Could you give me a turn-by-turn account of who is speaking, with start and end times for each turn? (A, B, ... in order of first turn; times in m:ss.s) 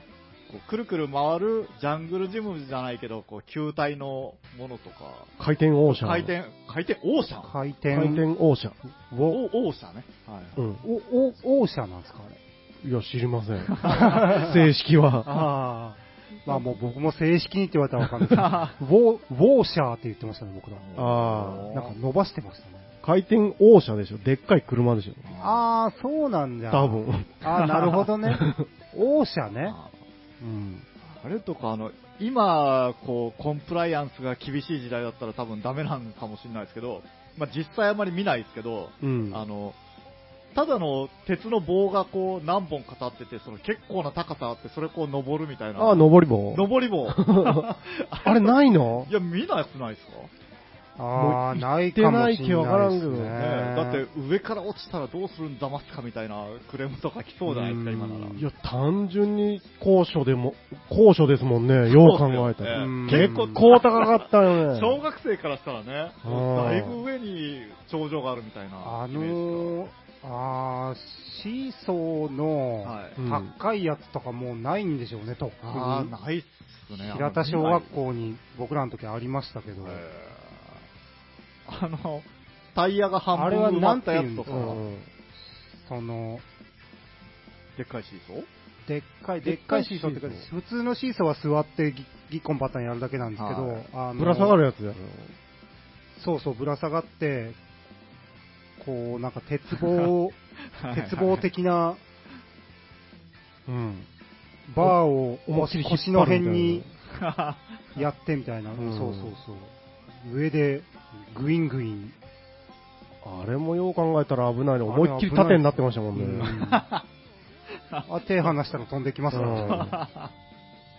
0:00.5-0:05.3 A
0:05.4-0:06.3 B
0:05.8-0:07.5 A
0:07.4-0:08.3 C
0:07.9-0:08.8 B
0:09.1-0:09.4 C
0:09.3-0:10.6 A
0:10.6-0:10.8 B
0:10.8-0:12.4 C
0:12.8-0:15.4 B
0:13.7-0:14.4 A
0:13.9-0:14.6 C
0:15.2-0:21.0 C
0:18.3-0:18.8 A
0:20.8-0:22.0 A
0:21.0-0:21.7 B
0:21.7-0:22.9 C
0:23.0-0:25.3 B
0:25.2-0:25.6 A
0:25.4-0:29.8 C
0:26.7-0:28.7 B
0:29.7-0:29.9 A
0:30.4-0:30.8 B
0:31.0-0:39.8 A
0:39.0-0:39.4 B
0:40.5-0:50.3 A
0:45.8-0:49.1 B
0:51.0-0:54.1 C
0:51.1-0:53.4 B
0:53.3-0:58.4 A
0:57.5-0:58.4 C
0:58.4-1:05.0 B
1:01.9-1:09.8 A
1:02.7-1:03.7 C
1:06.2-1:07.0 B
1:08.8-1:16.1 C
1:12.8-1:13.2 A
1:13.2-1:13.5 B
1:15.6-1:17.9 A
1:17.0-1:20.0 C
1:19.8-1:20.8 A
1:21.7-1:24.8 A
1:23.3-1:24.8 C
1:24.5-1:25.1 B
1:25.5-1:26.4 C
1:27.8-1:28.5 A
1:28.9-1:34.6 C
1:29.4-1:30.4 B
1:33.4-1:33.9 A
1:34.2-1:35.4 B
1:36.2-1:37.6 C
1:38.8-1:40.4 C
1:39.8-1:40.1 A
1:40.8-1:41.5 A
1:40.9-1:42.0 C
1:43.7-1:44.1 B
1:44.7-1:46.9 C
1:44.8-1:46.9 B
1:47.2-1:47.8 A
1:48.0-1:52.2 C
1:48.8-1:49.3 B
1:53.2-1:56.7 B
1:54.8-1:56.8 C
1:56.6-1:57.0 A
1:57.9-1:58.5 A
1:58.1-2:00.0 C
1:59.3-1:59.9 B
1:59.4-2:00.3 A